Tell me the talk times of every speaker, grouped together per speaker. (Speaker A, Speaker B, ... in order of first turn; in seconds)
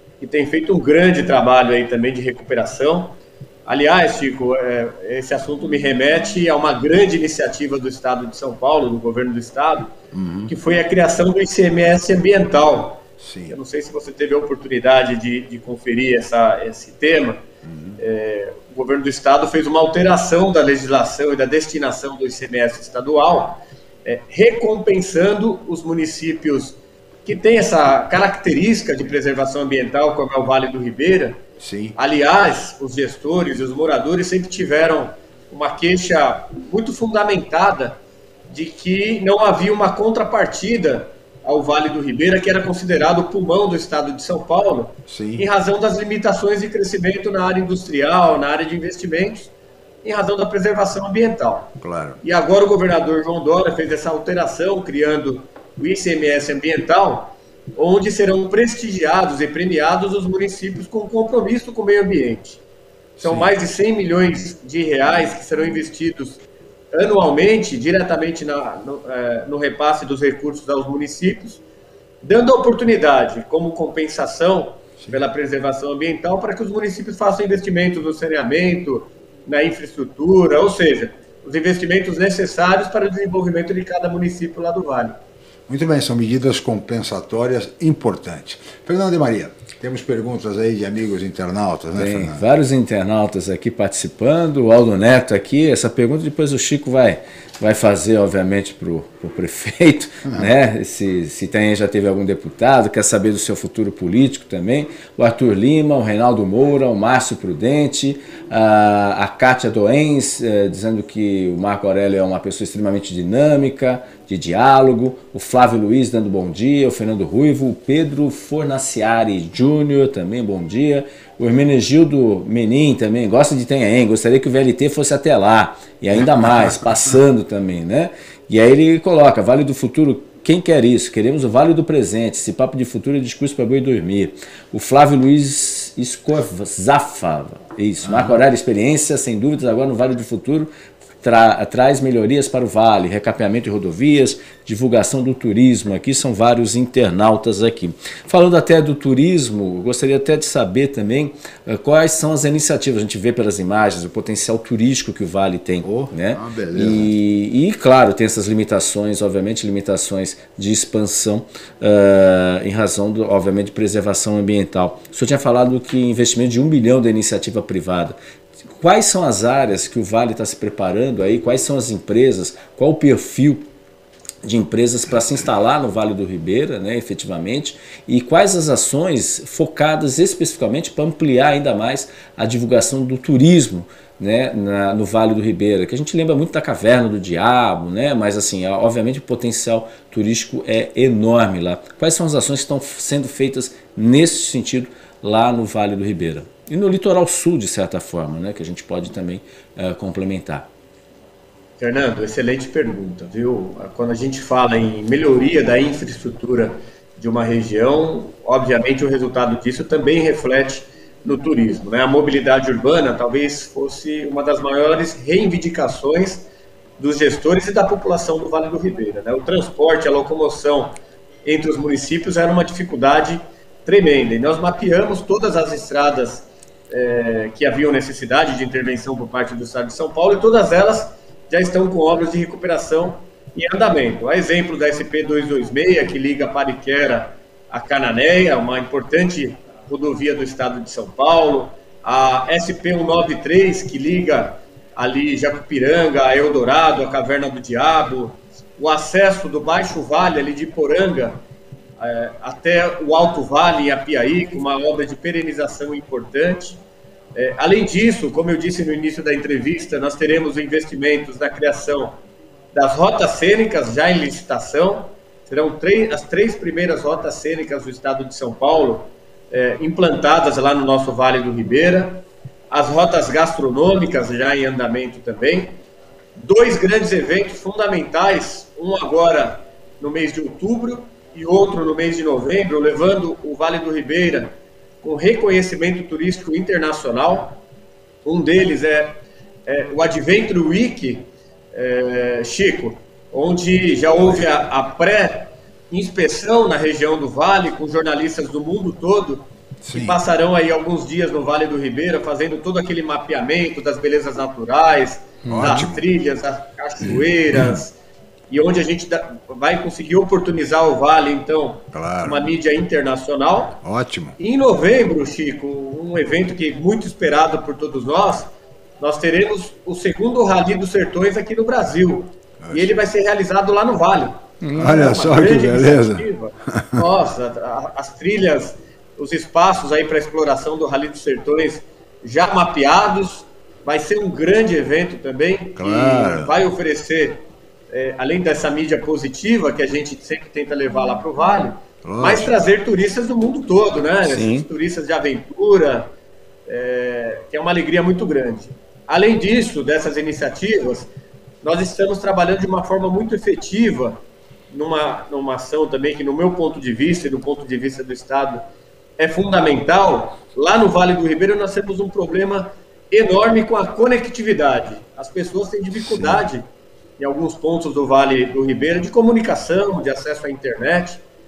Speaker A: 0.2-9.9, 10.5-17.4, 18.0-31.4, 31.9-49.5, 50.0-62.6, 63.2-71.6, 72.2-85.2, 201.8-216.5, 217.0-251.4, 252.0-256.8, 257.3-262.2, 262.7-275.8, 276.4-287.6, 288.2-307.9, 308.5-313.8, 314.4-346.1, 346.6-351.1, 351.6-358.6, 359.2-366.6, 367.2-371.2
Speaker B: 10.1-10.5, 13.2-13.6, 17.6-18.0, 31.6-31.9, 45.1-45.5, 51.8-52.2, 63.2-63.5, 85.7-92.5, 126.4-126.7, 138.0-138.4, 155.8-157.1, 299.8-300.2, 305.5-306.1, 307.0-307.8, 311.9-312.5, 313.8-314.4, 322.6-323.1, 324.7-327.0, 335.8-336.5, 342.0-342.5, 365.9-366.4
Speaker C: 91.9-168.2, 168.7-173.7, 174.4-200.7, 305.4-305.9, 324.6-325.0, 344.2-344.7